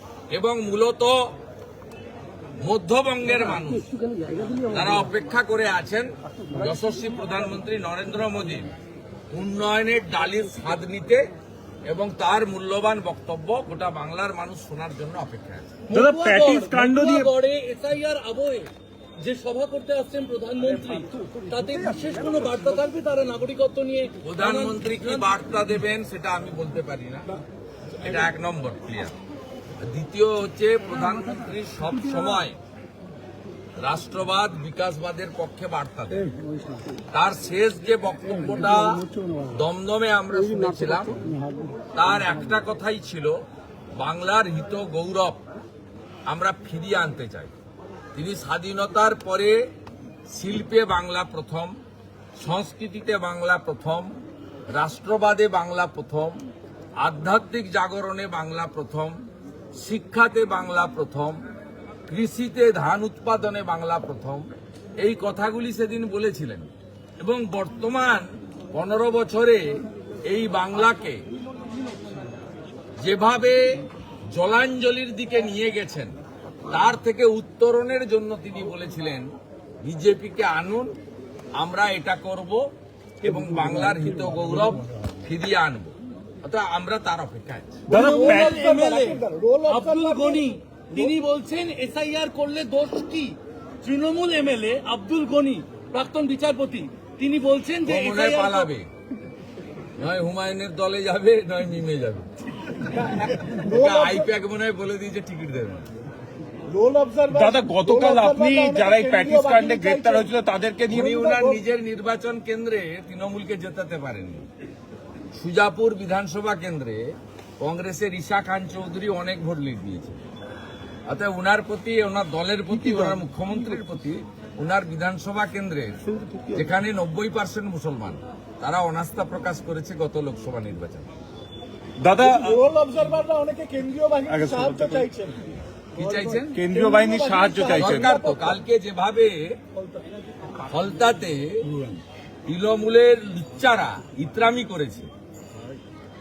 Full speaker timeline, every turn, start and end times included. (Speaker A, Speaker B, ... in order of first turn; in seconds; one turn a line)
Speaker A: 0.3-1.3
Speaker A: 2.6-3.9
Speaker A: 4.7-8.7
Speaker A: 9.3-11.2
Speaker A: 11.9-15.9
Speaker B: 15.9-17.3
Speaker C: 16.0-18.7
Speaker C: 19.2-24.7
Speaker A: 24.2-27.3
Speaker A: 28.0-29.1
Speaker A: 29.8-32.6
Speaker A: 33.8-36.3
Speaker A: 37.1-41.2
Speaker A: 41.9-43.4
Speaker A: 44.0-45.4
Speaker A: 46.3-47.5
Speaker A: 48.1-49.6
Speaker A: 50.3-51.8
Speaker A: 52.4-54.1
Speaker A: 54.7-56.4
Speaker A: 57.0-59.2
Speaker A: 59.8-61.4
Speaker A: 62.1-64.5
Speaker A: 65.0-66.7
Speaker A: 67.2-71.2
Speaker A: 73.0-73.8
Speaker A: 74.3-76.1
Speaker A: 76.7-79.3
Speaker A: 79.8-80.9
Speaker A: 81.6-82.7
Speaker A: 83.2-87.8
Speaker B: 87.9-89.1
Speaker D: 87.9-91.2
Speaker C: 89.7-98.5
Speaker A: 97.8-98.9
Speaker A: 100.0-102.3
Speaker D: 102.9-104.3
Speaker A: 103.6-105.8
Speaker D: 106.7-110.3
Speaker B: 107.3-111.2
Speaker D: 110.9-111.6
Speaker A: 110.9-114.5
Speaker A: 115.3-120.2
Speaker A: 121.1-126.0
Speaker A: 126.5-131.1
Speaker B: 132.0-132.6
Speaker D: 132.2-135.4
Speaker B: 134.3-135.1
Speaker A: 135.9-136.6
Speaker D: 136.0-138.6
Speaker B: 136.5-138.2
Speaker A: 137.8-139.6
Speaker A: 140.7-141.7
Speaker A: 142.5-145.1